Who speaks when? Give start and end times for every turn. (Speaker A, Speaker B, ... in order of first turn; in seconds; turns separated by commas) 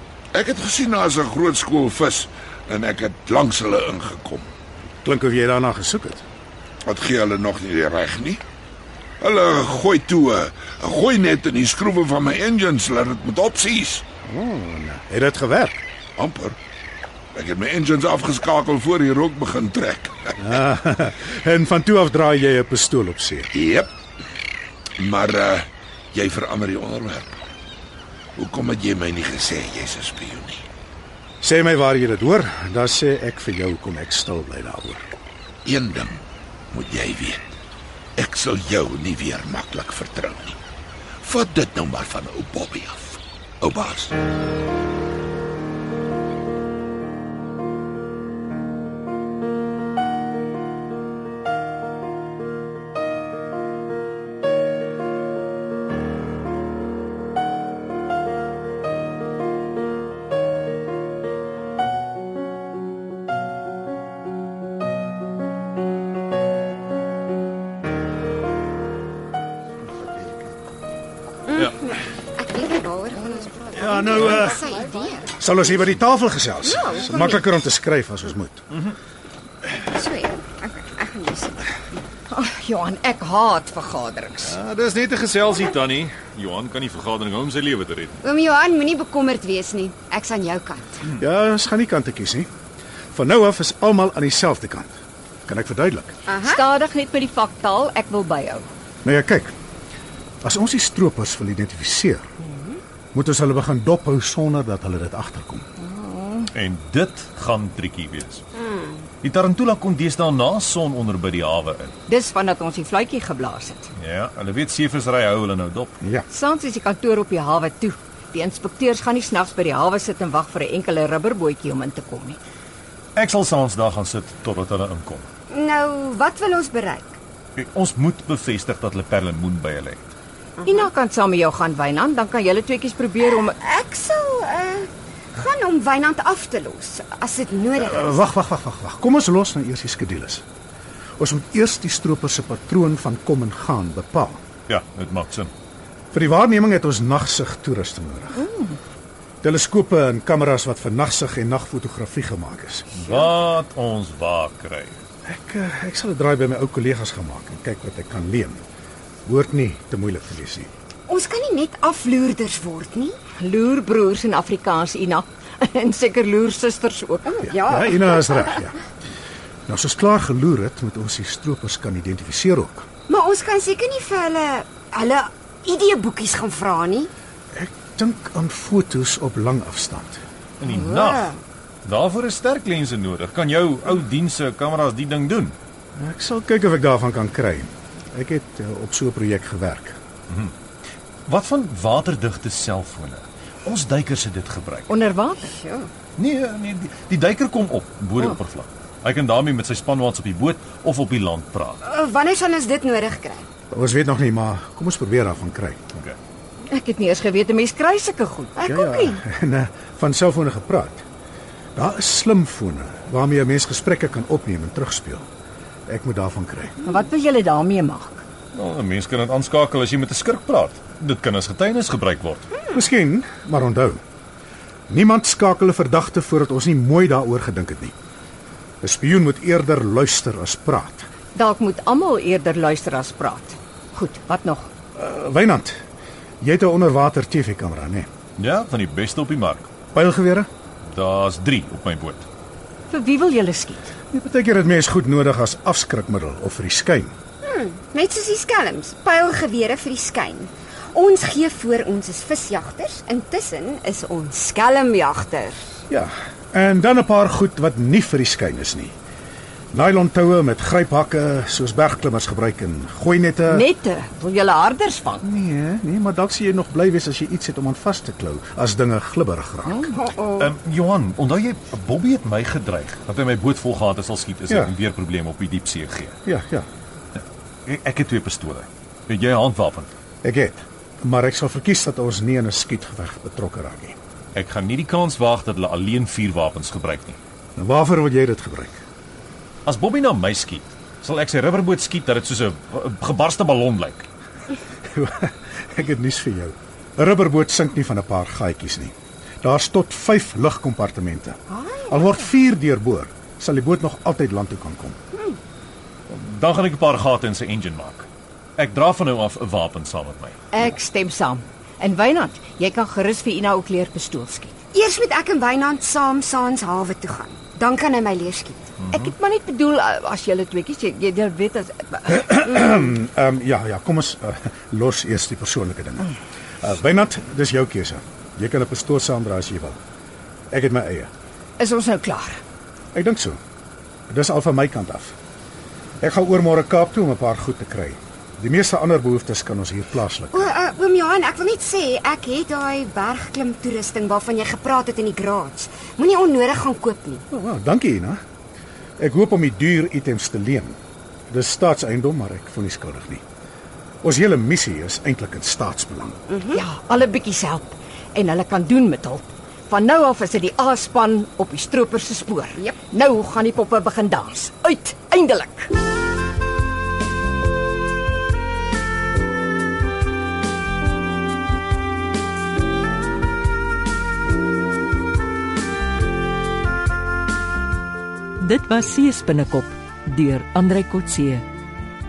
Speaker A: 0.3-4.5, Speaker B: 4.9-6.2, Speaker A: 6.8-8.4, Speaker A: 9.2-14.0, Speaker B: 14.2-15.8, Speaker A: 16.2-16.6, Speaker A: 17.3-20.5, Speaker B: 20.4-23.5, Speaker A: 23.5-23.9, Speaker A: 25.0-27.4, Speaker A: 28.4-30.6, Speaker B: 31.4-35.1, Speaker A: 35.6-37.5, Speaker A: 38.1-40.6, Speaker A: 41.2-44.1, Speaker C: 71.5-75.3, Speaker B: 73.7-74.6, Speaker B: 75.4-78.7, Speaker C: 76.6-77.4, Speaker C: 79.8-81.7, Speaker D: 82.3-84.6, Speaker E: 84.4-88.2, Speaker C: 88.2-91.1, Speaker B: 91.1-92.5, Speaker B: 93.1-94.9, Speaker B: 95.5-96.2, Speaker C: 96.3-96.6, Speaker D: 96.4-98.7, Speaker B: 99.0-99.5, Speaker B: 100.4-102.3, Speaker C: 102.5-102.8, Speaker B: 103.1-105.7, Speaker D: 105.8-106.5, Speaker E: 106.5-108.4, Speaker C: 108.6-109.0, Speaker E: 109.2-111.9, Speaker D: 112.1-113.9, Speaker E: 114.0-115.9, Speaker B: 116.0-116.2, Speaker D: 116.3-122.4, Speaker E: 123.2-125.3, Speaker C: 125.5-127.2, Speaker E: 127.5-130.1, Speaker D: 130.6-133.5, Speaker C: 133.6-138.2, Speaker B: 137.8-140.4, Speaker B: 141.2-144.4, Speaker E: 144.7-145.5, Speaker B: 146.1-148.5, Speaker D: 148.4-148.8, Speaker B: 149.4-152.9, Speaker E: 152.9-155.0, Speaker B: 155.2-158.6, Speaker B: 159.2-160.7, Speaker C: 161.1-163.2, Speaker D: 163.4-167.4, Speaker C: 167.3-168.4, Speaker B: 167.5-168.8, Speaker B: 169.7-172.9, Speaker C: 173.1-177.1, Speaker B: 177.5-180.2, Speaker E: 180.6-185.6, Speaker C: 180.6-181.4, Speaker B: 185.9-190.0, Speaker E: 191.2-194.9, Speaker D: 194.9-195.6, Speaker C: 195.6-195.9, Speaker E: 196.2-201.8, Speaker C: 201.8-203.5, Speaker B: 203.7-205.8, Speaker D: 206.7-209.2, Speaker B: 208.6-211.0, Speaker B: 211.7-215.3, Speaker B: 215.9-216.8, Speaker D: 216.8-218.2, Speaker E: 218.5-222.5, Speaker B: 222.7-224.0, Speaker B: 224.9-227.9, Speaker B: 228.8-231.1, Speaker D: 231.3-234.7, Speaker B: 234.9-235.8, Speaker B: 236.4-238.1, Speaker E: 238.4-239.7, Speaker B: 239.9-240.5, Speaker E: 240.8-242.2, Speaker D: 242.9-243.9, Speaker B: 244.1-247.1, Speaker C: 247.4-255.8, Speaker B: 255.9-258.9, Speaker B: 259.7-263.7, Speaker D: 263.5-265.2, Speaker B: 265.2-269.9, Speaker C: 269.9-270.5, Speaker E: 270.3-276.1, Speaker B: 276.2-276.7, Speaker E: 277.1-279.9, Speaker B: 280.2-284.0, Speaker E: 284.3-287.2, Speaker B: 287.6-288.8, Speaker E: 289.6-294.1, Speaker B: 294.9-305.0, Speaker E: 306.1-310.4, Speaker D: 310.5-314.6, Speaker C: 314.7-318.7, Speaker E: 318.8-319.1, Speaker D: 318.9-322.2, Speaker B: 322.1-329.8, Speaker B: 330.5-331.1, Speaker D: 331.6-332.4, Speaker B: 332.9-333.4, Speaker B: 334.1-335.1, Speaker B: 336.0-340.5, Speaker C: 340.3-347.2, Speaker B: 347.3-348.2, Speaker B: 349.0-350.8, Speaker B: 351.3-353.2, Speaker B: 354.0-356.2, Speaker C: 356.3-356.6, Speaker D: 356.5-365.7, Speaker F: 378.4-381.4